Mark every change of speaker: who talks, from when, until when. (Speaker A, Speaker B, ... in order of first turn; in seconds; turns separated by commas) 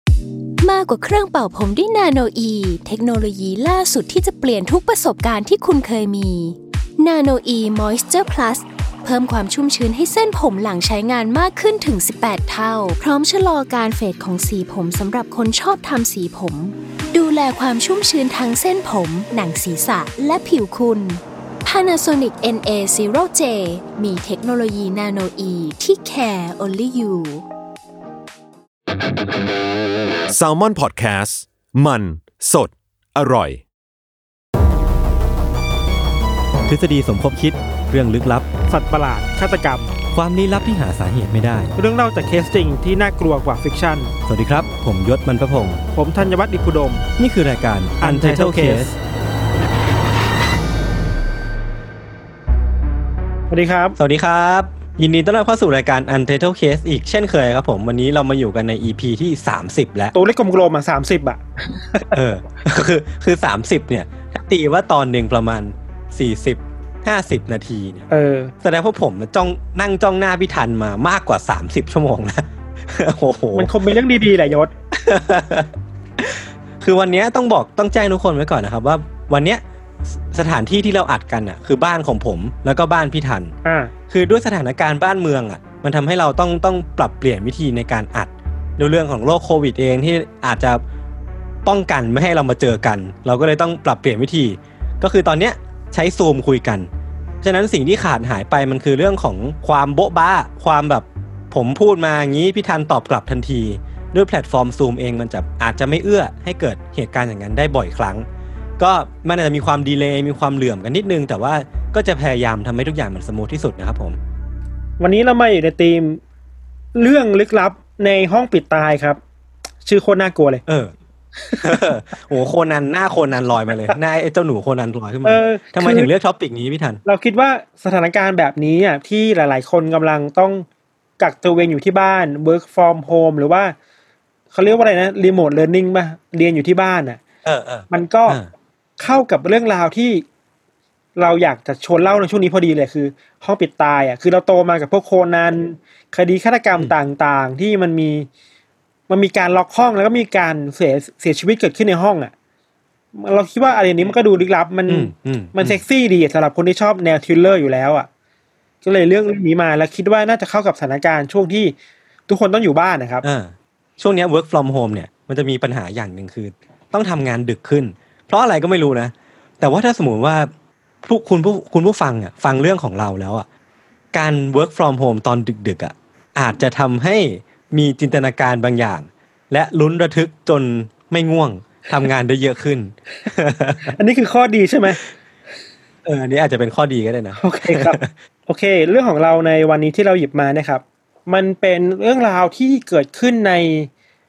Speaker A: 0.6-27.4, Speaker B: 30.3-33.6, Speaker C: 36.7-38.5, Speaker D: 38.7-39.9, Speaker C: 40.1-41.8, Speaker D: 41.8-44.1, Speaker C: 44.3-45.8, Speaker D: 45.9-47.1, Speaker C: 47.2-49.0, Speaker D: 48.0-48.9, Speaker D: 53.5-54.0, Speaker C: 54.0-60.1, Speaker D: 60.1-61.4, Speaker D: 61.9-62.2, Speaker C: 62.1-68.1, Speaker D: 68.1-68.5, Speaker C: 68.6-73.7, Speaker D: 73.5-74.7, Speaker C: 74.9-83.5, Speaker D: 83.6-83.9, Speaker C: 84.1-90.8, Speaker C: 91.6-96.9, Speaker C: 97.4-108.2, Speaker C: 108.8-114.2, Speaker D: 115.0-116.2, Speaker D: 117.0-119.2, Speaker D: 119.8-120.6, Speaker C: 120.7-120.9, Speaker D: 121.5-121.9, Speaker C: 121.6-127.0, Speaker D: 125.2-126.1, Speaker D: 127.0-130.7, Speaker D: 131.2-133.8, Speaker D: 134.5-137.2, Speaker C: 137.4-138.5, Speaker D: 137.9-138.4, Speaker D: 139.0-140.2, Speaker D: 141.2-148.3, Speaker D: 149.1-152.3, Speaker D: 153.2-158.1, Speaker C: 154.9-155.8, Speaker D: 158.8-161.7, Speaker D: 162.3-163.2, Speaker C: 163.2-170.5, Speaker C: 171.0-173.5, Speaker C: 174.1-183.9, Speaker D: 183.9-185.0, Speaker C: 186.1-188.1, Speaker D: 187.4-193.9